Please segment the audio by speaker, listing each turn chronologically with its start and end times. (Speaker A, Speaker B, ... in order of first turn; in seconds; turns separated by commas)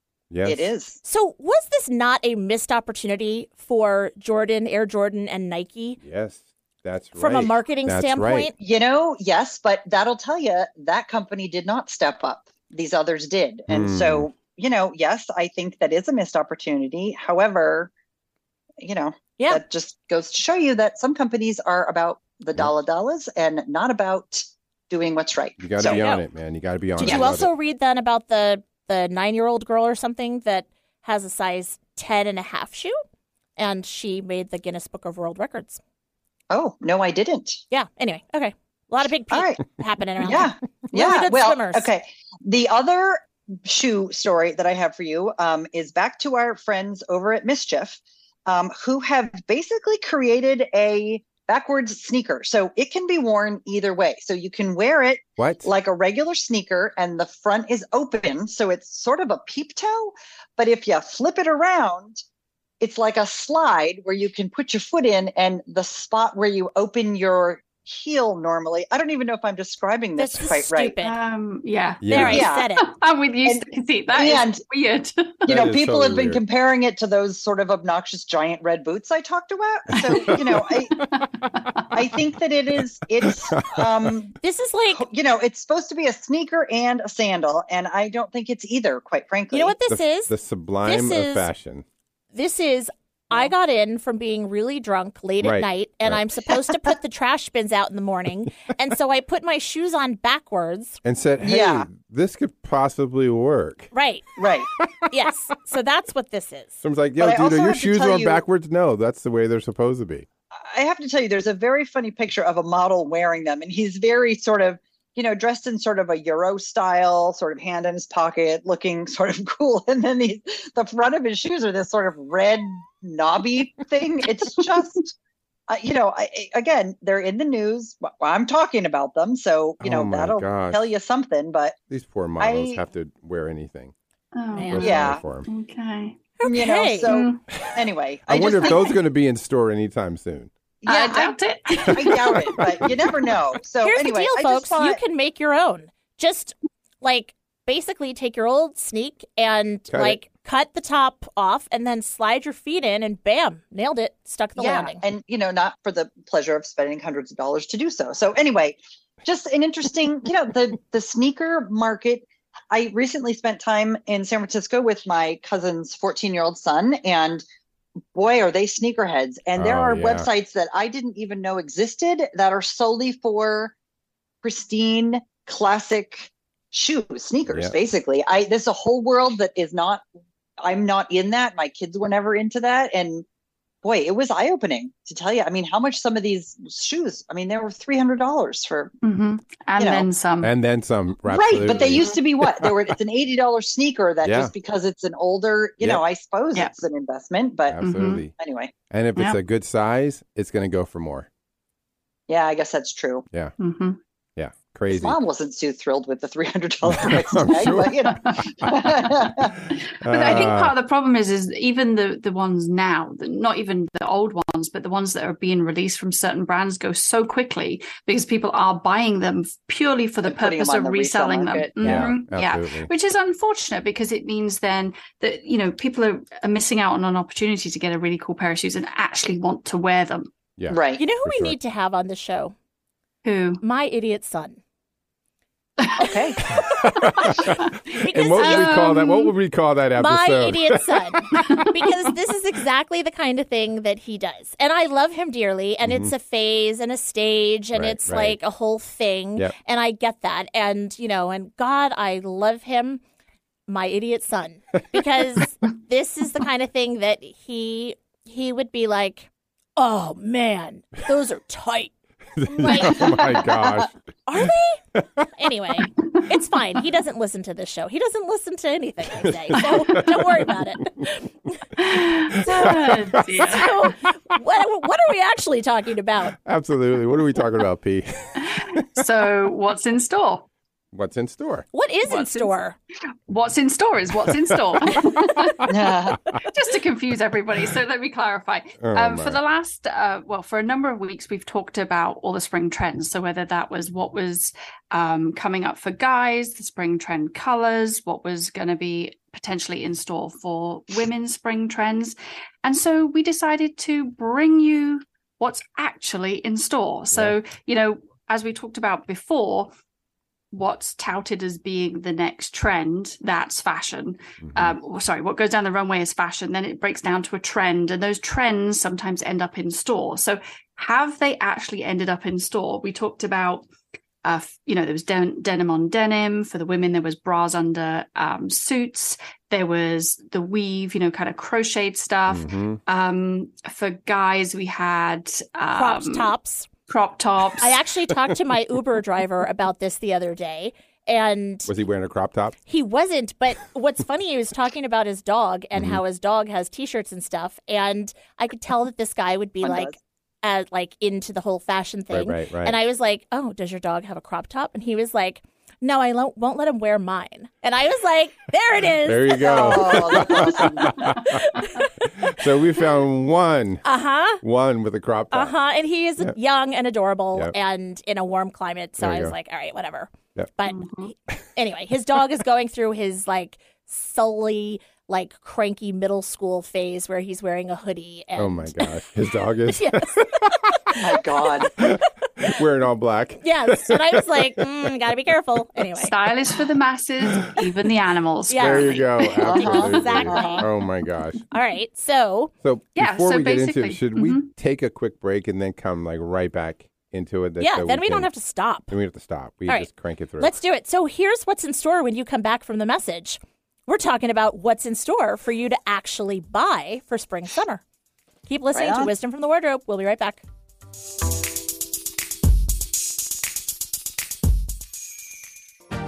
Speaker A: 0.3-0.7, Speaker B: 0.4-1.0, Speaker C: 1.0-6.0, Speaker A: 6.0-8.5, Speaker C: 7.2-8.5, Speaker B: 8.6-17.9, Speaker A: 13.7-14.3, Speaker B: 18.8-26.0, Speaker A: 25.6-27.5, Speaker C: 25.8-26.2, Speaker C: 27.0-33.0, Speaker B: 27.0-27.3, Speaker C: 33.6-35.8, Speaker B: 36.5-37.6, Speaker C: 37.7-41.9, Speaker B: 39.3-39.6, Speaker B: 40.2-62.2, Speaker A: 55.4-55.7, Speaker B: 62.8-70.9, Speaker C: 70.2-71.2, Speaker D: 71.0-75.4, Speaker A: 72.0-72.5, Speaker C: 72.1-72.9, Speaker B: 72.1-72.7, Speaker B: 74.1-74.6, Speaker A: 75.5-76.4, Speaker B: 75.5-81.0, Speaker A: 80.3-80.6, Speaker D: 81.1-81.9, Speaker B: 81.9-84.3, Speaker A: 83.2-84.1, Speaker C: 84.4-85.0, Speaker B: 84.9-89.8, Speaker C: 89.5-91.5, Speaker A: 89.9-91.8, Speaker C: 92.3-101.0, Speaker A: 95.4-96.2, Speaker A: 101.0-103.9, Speaker B: 101.4-101.9, Speaker C: 103.9-104.2, Speaker B: 104.4-104.7, Speaker C: 105.1-106.7, Speaker A: 106.8-110.2, Speaker B: 107.2-108.4, Speaker B: 110.5-125.1, Speaker B: 125.7-131.8, Speaker A: 129.8-130.8, Speaker A: 131.9-133.9, Speaker B: 132.4-132.8, Speaker D: 134.3-136.2, Speaker C: 134.5-135.0, Speaker A: 134.7-135.5, Speaker B: 134.8-135.2, Speaker C: 136.4-137.1, Speaker B: 136.4-139.0, Speaker D: 137.1-137.4, Speaker A: 138.3-140.5, Speaker B: 140.8-141.3, Speaker D: 140.8-142.6, Speaker A: 141.9-143.1, Speaker B: 141.9-145.0, Speaker C: 143.8-155.0, Speaker A: 149.9-150.2, Speaker B: 154.6-167.4, Speaker B: 168.1-173.7, Speaker A: 169.6-170.3, Speaker B: 174.4-180.0, Speaker A: 177.5-177.7, Speaker B: 180.6-183.2, Speaker B: 183.8-188.9, Speaker D: 189.0-190.5, Speaker B: 189.8-190.1, Speaker A: 190.4-192.7, Speaker B: 191.3-197.8, Speaker A: 194.2-194.5, Speaker A: 197.7-198.3, Speaker D: 197.8-198.2, Speaker B: 198.3-198.7, Speaker A: 198.9-201.3, Speaker B: 202.3-203.2, Speaker D: 203.6-204.0, Speaker A: 204.4-205.2, Speaker B: 204.9-209.6, Speaker A: 206.8-208.4, Speaker D: 208.2-208.9, Speaker D: 209.7-230.3, Speaker A: 210.0-210.7, Speaker B: 220.2-222.1, Speaker A: 221.8-222.9, Speaker A: 230.6-231.6, Speaker B: 230.7-231.0, Speaker C: 230.9-232.5, Speaker D: 233.2-233.6, Speaker C: 233.6-234.6, Speaker B: 236.0-236.4, Speaker A: 236.8-241.6, Speaker D: 237.2-237.5, Speaker C: 237.9-238.8, Speaker D: 238.4-239.3, Speaker C: 240.0-253.0, Speaker D: 241.3-241.7, Speaker A: 245.8-246.1, Speaker A: 247.7-248.4, Speaker C: 253.7-261.9, Speaker A: 262.4-265.2, Speaker C: 262.5-263.2, Speaker B: 262.8-263.7, Speaker C: 264.3-264.8, Speaker C: 265.4-271.1, Speaker A: 269.2-270.2, Speaker D: 271.8-273.7, Speaker A: 272.4-273.5, Speaker C: 273.3-276.4, Speaker A: 276.4-278.8, Speaker D: 278.4-280.5, Speaker A: 280.9-281.7, Speaker C: 281.7-282.8, Speaker D: 282.1-282.5, Speaker D: 283.3-285.9, Speaker A: 284.3-285.5, Speaker B: 285.7-286.2, Speaker D: 286.4-309.7, Speaker A: 288.8-289.4, Speaker A: 307.1-307.4, Speaker D: 310.5-323.7, Speaker A: 314.4-314.8, Speaker D: 324.2-336.3, Speaker A: 332.3-332.8, Speaker C: 335.7-336.7, Speaker D: 336.9-337.8, Speaker C: 337.6-341.7, Speaker A: 341.7-342.6, Speaker C: 342.6-361.8, Speaker A: 345.7-346.0, Speaker B: 349.6-350.0, Speaker A: 352.1-352.8, Speaker A: 359.0-363.8, Speaker B: 359.4-361.2, Speaker C: 363.8-364.4, Speaker A: 364.4-365.5, Speaker C: 365.3-370.8, Speaker A: 369.0-369.3, Speaker D: 370.7-371.1, Speaker C: 371.6-378.9, Speaker A: 378.4-381.0, Speaker C: 379.7-380.5, Speaker B: 381.0-381.8, Speaker A: 381.8-384.6, Speaker C: 383.4-386.1, Speaker D: 386.0-389.5, Speaker C: 388.5-390.6, Speaker A: 388.6-391.4, Speaker B: 389.5-390.6, Speaker C: 391.5-392.5, Speaker A: 392.6-398.3, Speaker D: 393.0-394.5, Speaker C: 397.6-398.9, Speaker A: 398.9-400.5, Speaker C: 400.4-407.8, Speaker C: 408.5-410.4, Speaker B: 408.7-409.1